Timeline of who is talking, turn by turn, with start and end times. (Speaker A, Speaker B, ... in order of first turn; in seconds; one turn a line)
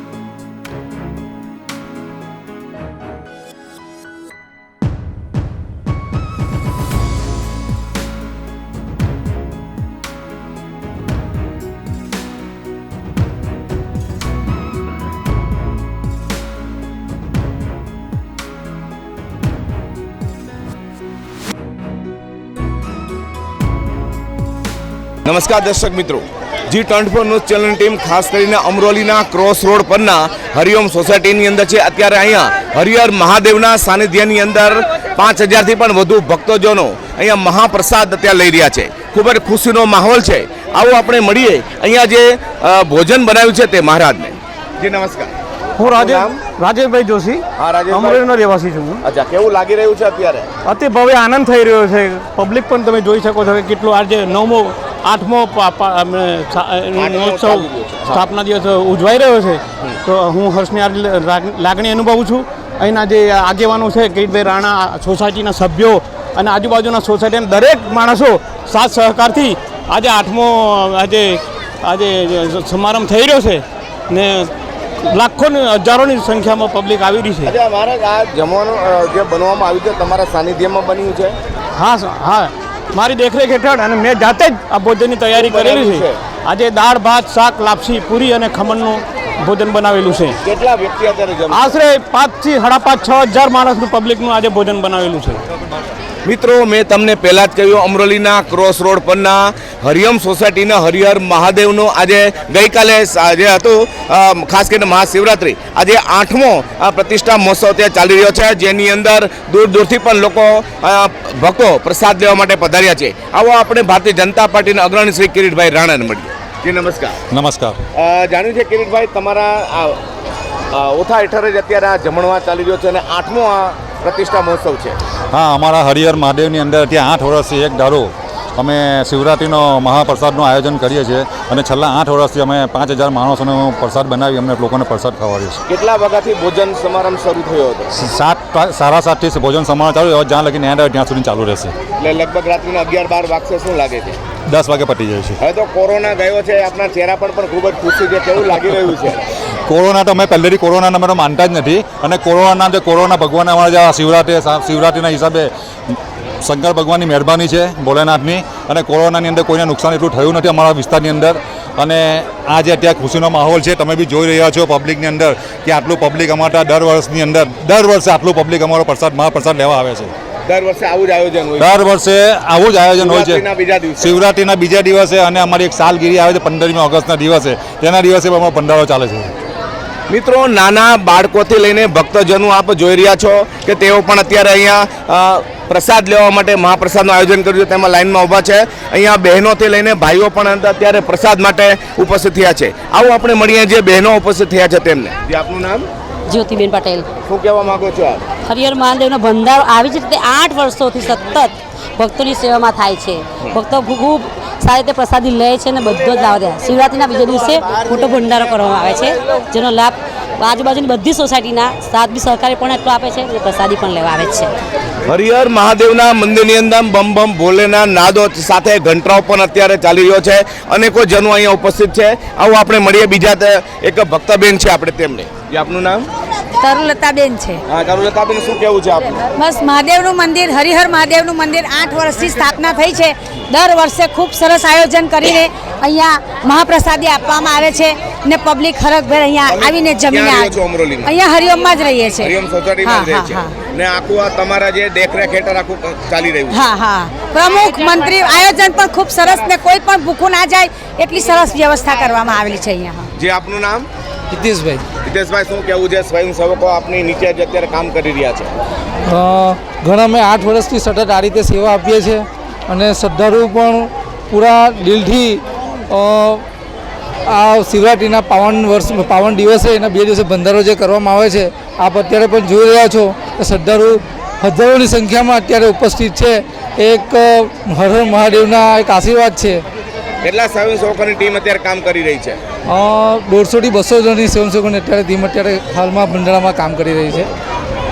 Speaker A: 25.2-45.3
Speaker B: 45.8-49.0
Speaker A: 45.9-46.4
Speaker A: 47.6-48.2
Speaker A: 49.0-50.5
Speaker B: 50.6-74.5
Speaker A: 57.0-58.3
Speaker B: 75.0-77.5
Speaker A: 77.5-81.3
Speaker B: 81.8-90.3
Speaker A: 85.3-86.2
Speaker A: 90.4-91.7
Speaker B: 91.5-95.4
Speaker A: 96.2-117.2
Speaker C: 117.3-117.8
Speaker A: 117.9-120.0
Speaker A: 120.7-125.0
Speaker C: 125.3-135.6
Speaker A: 135.7-137.9
Speaker C: 137.9-141.7
Speaker A: 142.0-144.2
Speaker C: 144.5-145.4
Speaker A: 145.4-149.2
Speaker C: 149.7-170.1
Speaker A: 170.5-171.7
Speaker C: 171.6-173.4
Speaker A: 173.0-174.1
Speaker C: 174.0-179.3
Speaker A: 180.1-195.9
Speaker D: 196.3-197.1
Speaker A: 197.2-198.2
Speaker D: 198.5-214.5
Speaker A: 215.1-226.1
Speaker E: 226.6-227.6
Speaker A: 227.7-229.2
Speaker E: 229.4-242.3
Speaker A: 239.4-241.2
Speaker A: 242.2-246.6
Speaker E: 242.8-243.5
Speaker E: 246.5-253.1
Speaker A: 253.2-253.9
Speaker F: 254.3-254.8
Speaker A: 255.0-258.5
Speaker F: 259.1-266.4
Speaker F: 267.3-279.6
Speaker A: 280.2-282.4
Speaker F: 282.7-287.3